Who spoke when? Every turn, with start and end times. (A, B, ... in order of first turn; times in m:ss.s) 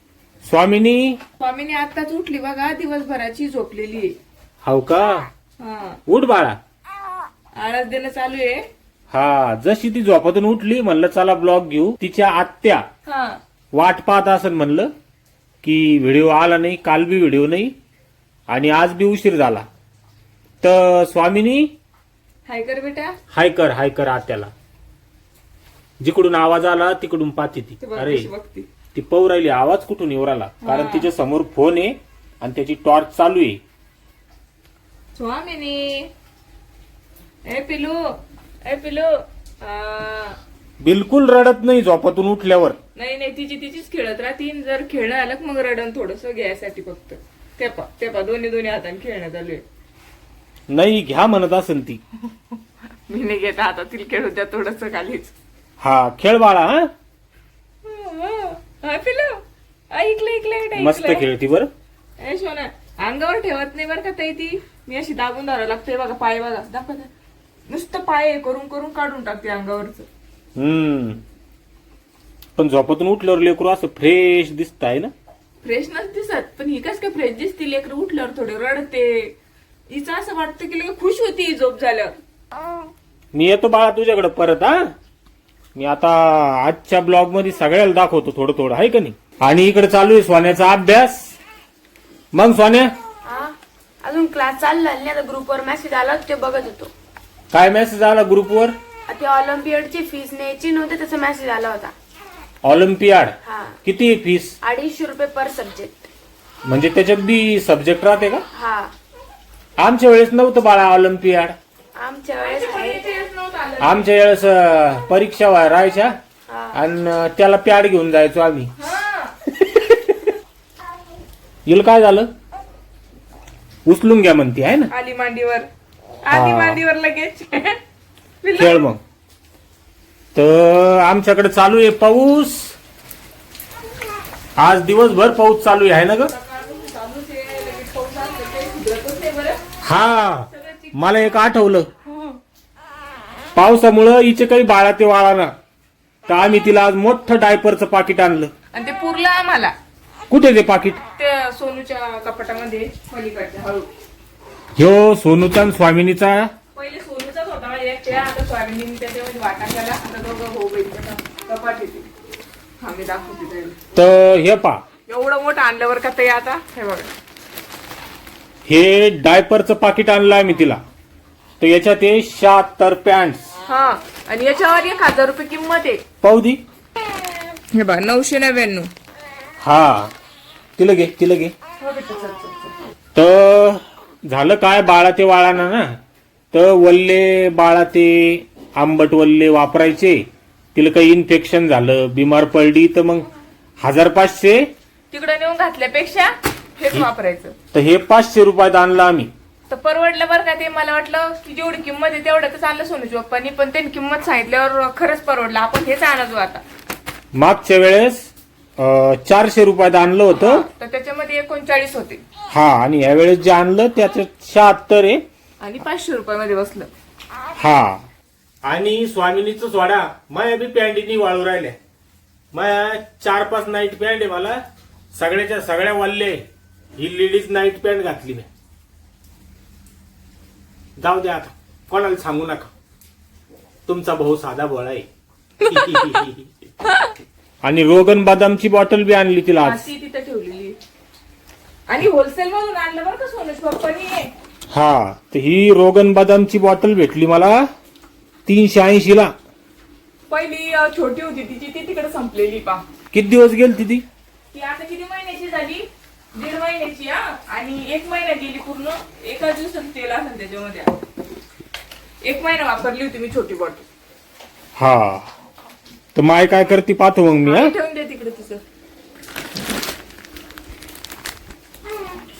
0:00.4-0:01.2 A
0:01.4-0:04.2 B
0:04.6-0:05.3 A
0:05.6-0:06.0 B
0:06.1-0:06.6 A
0:07.6-0:08.6 B
0:09.1-0:12.8 A
0:13.1-0:13.4 B
0:13.7-0:14.9 A
0:15.6-0:17.7 A
0:18.5-0:19.6 A
0:20.6-0:21.7 A
0:22.5-0:23.2 B
0:23.3-0:24.5 A
0:26.0-0:28.3 A
0:27.8-0:28.7 B
0:28.9-0:33.6 A
0:30.6-0:31.1 B
0:35.1-0:36.1 B
0:37.4-0:38.0 B
0:38.6-0:39.1 B
0:39.6-0:40.4 B
0:40.8-0:42.8 A
0:43.0-0:49.6 B
0:50.7-0:52.0 A
0:53.1-0:55.3 B
0:55.8-0:56.9 A
0:57.8-1:01.2 B
1:00.8-1:01.7 A
1:02.2-1:07.1 B
1:07.7-1:10.1 B
1:10.6-1:11.2 A
1:12.6-1:15.1 A
1:15.6-1:19.4 B
1:19.9-1:22.1 B
1:23.3-1:24.8 A
1:25.7-1:31.3 A
1:32.3-1:32.9 A
1:33.2-1:36.9 C
1:37.5-1:38.7 A
1:39.1-1:41.9 C
1:42.6-1:44.5 A
1:43.4-1:43.8 C
1:44.6-1:46.0 C
1:46.6-1:48.4 A
1:48.5-1:48.9 C
1:49.8-1:51.5 A
1:51.9-1:53.1 C
1:52.4-1:54.1 B
1:53.8-1:56.1 A
1:56.5-1:56.8 C
1:56.7-1:58.7 A
1:58.8-1:59.3 B
2:01.6-2:02.3 A
2:03.8-2:04.9 A
2:04.9-2:05.7 B
2:06.2-2:07.8 B
2:06.3-2:06.8 A
2:08.4-2:08.9 B
2:08.6-2:09.0 A
2:10.3-2:12.7 A
2:14.6-2:16.3 A
2:16.3-2:19.6 B
2:19.8-2:21.9 A
2:20.5-2:21.2 B
2:23.5-2:25.5 A
2:26.3-2:28.5 A
2:28.7-2:29.7 B
2:30.3-2:31.0 A
2:31.2-2:33.9 B
2:34.8-2:36.5 A
2:36.7-2:42.1 B
2:42.8-2:43.8 B
2:43.9-2:44.8 A
2:45.1-2:47.1 B
2:48.6-2:50.8 A
2:51.6-2:53.5 A
2:53.7-2:56.0 B
2:56.2-2:56.6 A
2:57.7-2:58.9 B
2:59.6-3:00.1 A
3:00.8-3:01.5 A
3:01.8-3:02.7 B
3:03.1-3:06.0 A
3:06.5-3:10.2 A
3:10.7-3:13.2 A
3:13.8-3:14.7 A
3:15.1-3:17.5 B
3:17.7-3:19.3 A
3:19.7-3:26.6 B
3:27.3-3:30.6 A
3:30.3-3:32.2 B
3:32.5-3:35.2 A
3:35.6-3:36.9 B
3:37.6-3:38.0 A
3:38.6-3:41.8 A
3:42.5-3:44.6 A
3:45.1-3:46.4 A
3:47.0-3:48.5 A
3:51.0-3:52.7 A
3:53.9-3:55.0 A
3:55.6-3:56.2 B
3:55.7-3:56.5 A
3:56.8-3:57.1 B
3:57.6-3:59.9 A
3:59.6-4:00.8 B
4:01.9-4:04.3 B
4:04.7-4:07.6 A
4:08.4-4:09.3 A
4:10.3-4:12.8 B
4:13.1-4:14.0 A
4:14.5-4:21.0 B
4:22.2-4:23.8 B
4:24.8-4:25.3 A
4:26.1-4:27.7 A
4:27.4-4:28.6 B